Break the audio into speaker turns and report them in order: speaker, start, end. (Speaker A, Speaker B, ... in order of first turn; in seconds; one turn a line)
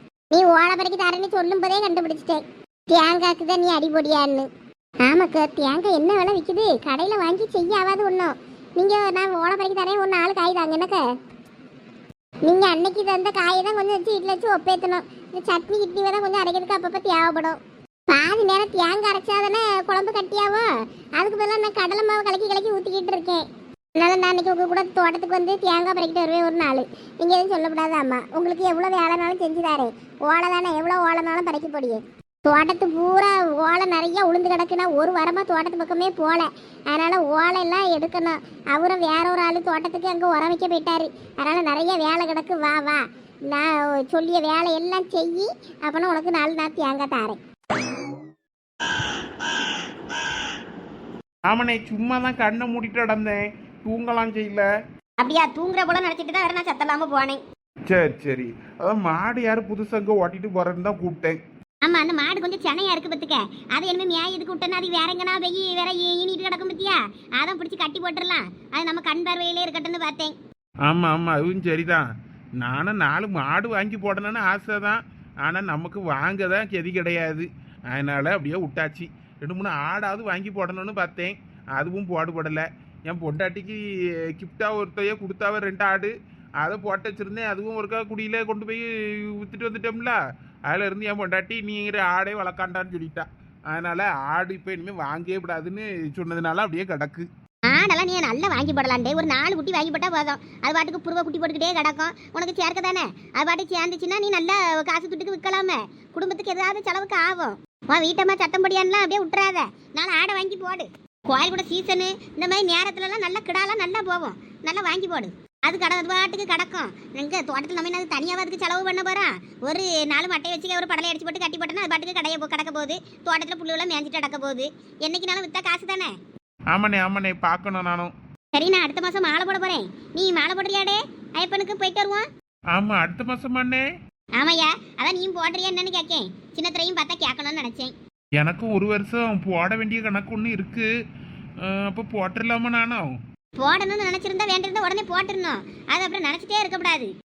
Speaker A: 0.3-4.5
Speaker A: 5.0-11.0
Speaker A: 12.4-17.6
Speaker A: 18.1-23.4
Speaker A: 23.9-47.4
Speaker B: 51.5-54.7
Speaker C: 55.2-57.4
Speaker B: 57.9-61.4
Speaker C: 61.8-70.3
Speaker B: 70.9-72.0
Speaker B: 72.6-83.8
Speaker B: 84.3-90.2
Speaker B: 90.7-97.3
Speaker C: 97.7-126.1
Speaker B: 126.7-128.1
Speaker C: 128.5-132.3
Speaker B: 132.7-133.8
Speaker C: 134.4-137.9
Speaker B: 138.4-140.9
Speaker B: 141.6-143.2
Speaker C: 143.6-147.1